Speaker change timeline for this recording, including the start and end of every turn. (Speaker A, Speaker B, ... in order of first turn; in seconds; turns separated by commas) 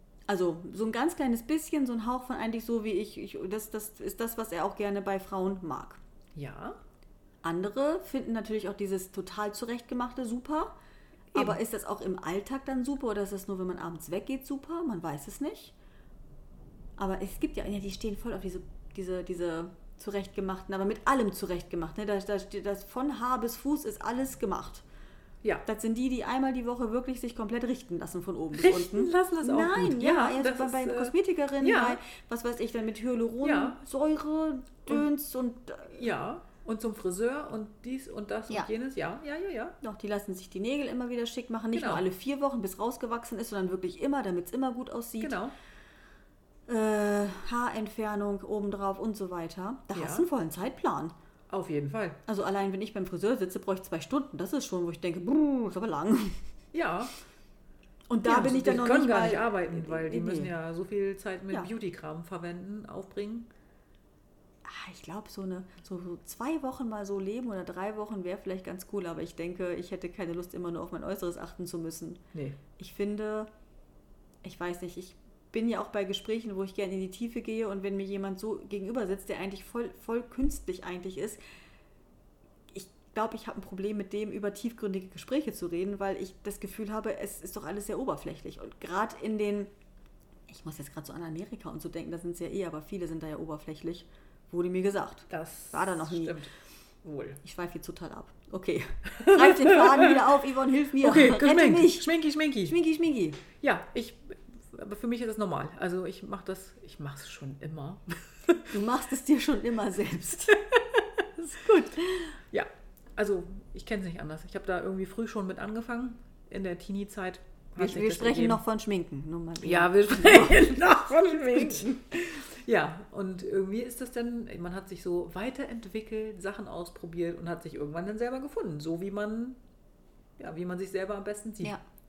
Speaker A: 0.3-6.0, Speaker B: 6.3-6.8, Speaker A: 7.4-10.7, Speaker A: 11.3-15.7, Speaker B: 11.3-11.6, Speaker A: 17.0-24.8, Speaker A: 25.6-36.1, Speaker B: 28.5-32.0, Speaker B: 33.4-33.8, Speaker B: 35.9-39.8, Speaker A: 39.8-45.4, Speaker B: 41.7-42.0, Speaker B: 45.2-45.5, Speaker A: 46.7-51.1, Speaker B: 49.9-50.3, Speaker B: 51.5-52.2, Speaker A: 52.2-56.4, Speaker B: 56.7-57.1, Speaker A: 58.1-60.5, Speaker B: 58.2-63.5, Speaker A: 64.6-72.2, Speaker B: 72.3-72.6, Speaker A: 72.7-73.5, Speaker A: 74.4-81.4, Speaker A: 82.7-89.7, Speaker A: 90.5-96.4, Speaker B: 95.3-96.5, Speaker B: 97.0-97.4, Speaker A: 97.4-102.1, Speaker B: 99.2-100.3, Speaker B: 101.0-102.7, Speaker A: 102.6-103.4, Speaker B: 103.6-108.7, Speaker A: 108.7-110.6, Speaker A: 111.4-112.3, Speaker B: 112.5-118.6, Speaker A: 117.8-120.7, Speaker B: 119.6-129.6, Speaker A: 121.6-121.9, Speaker B: 130.4-131.8